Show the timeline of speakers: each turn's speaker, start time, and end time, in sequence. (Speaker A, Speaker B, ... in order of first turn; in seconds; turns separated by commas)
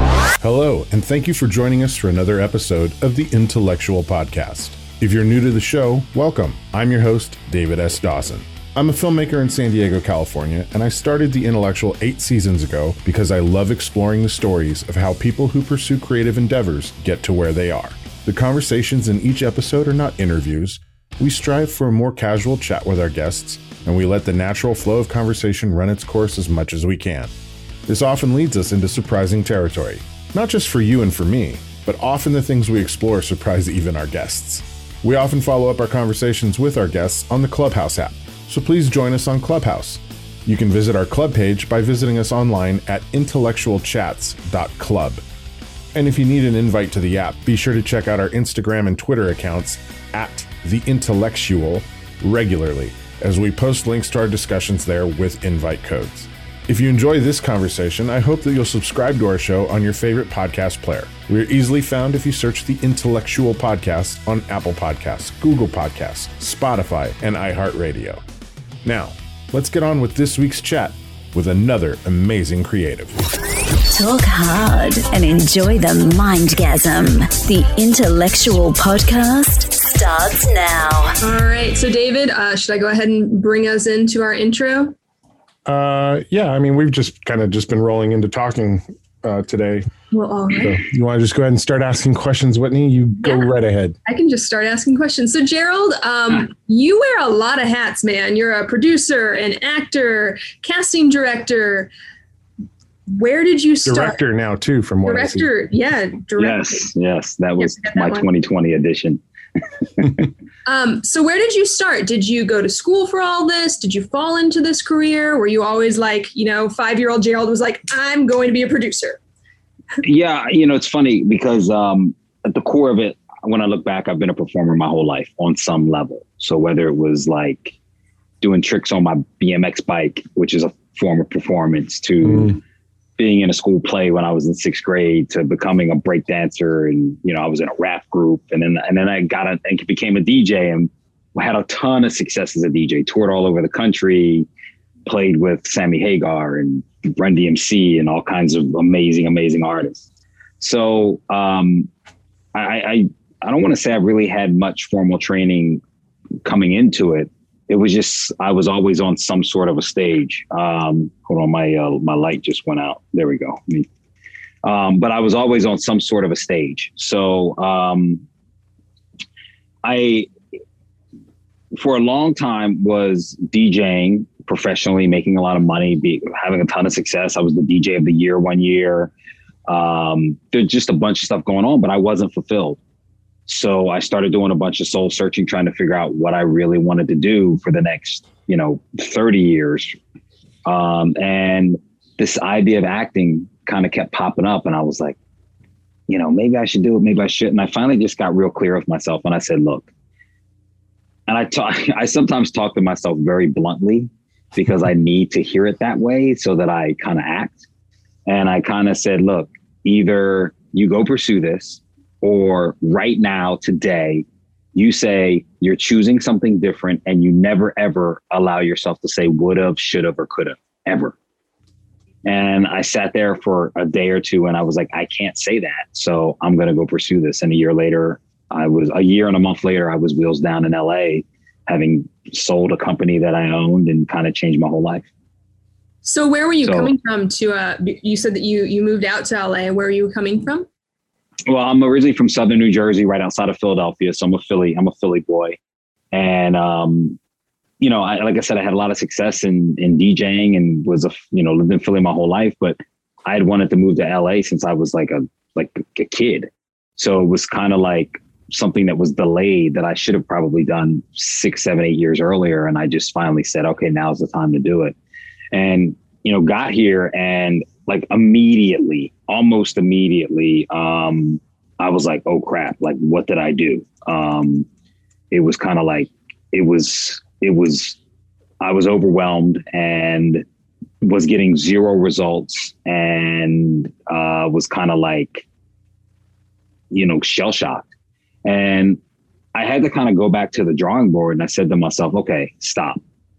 Speaker A: 0.4-27.3, Speaker A: 27.9-45.2, Speaker A: 45.9-68.2, Speaker A: 68.8-73.1, Speaker B: 73.9-81.1, Speaker C: 81.2-84.9, Speaker A: 85.7-89.9, Speaker C: 90.1-90.8, Speaker A: 90.5-94.0, Speaker C: 94.0-101.9, Speaker C: 103.1-104.2, Speaker A: 103.8-105.5, Speaker C: 105.0-106.8, Speaker D: 106.4-109.2, Speaker C: 107.6-108.3, Speaker C: 110.6-119.2, Speaker D: 120.0-127.7, Speaker D: 128.4-132.6, Speaker D: 133.2-144.5, Speaker D: 145.1-150.1, Speaker D: 150.6-151.9, Speaker D: 152.5-155.8, Speaker D: 156.4-163.9, Speaker D: 164.6-168.2, Speaker D: 169.8-170.3, Speaker D: 171.7-179.1, Speaker D: 179.7-182.8, Speaker D: 183.5-190.0, Speaker D: 190.6-195.2, Speaker D: 196.1-199.9, Speaker D: 201.3-207.6, Speaker D: 208.2-221.1, Speaker D: 222.2-235.1, Speaker C: 236.0-240.7, Speaker D: 236.6-236.9, Speaker D: 241.5-245.6, Speaker D: 246.1-247.2, Speaker D: 247.8-264.9, Speaker D: 265.5-274.7, Speaker D: 275.3-278.0, Speaker D: 278.6-280.4, Speaker D: 281.0-285.4, Speaker D: 286.9-287.8, Speaker D: 288.4-289.0, Speaker D: 289.5-293.0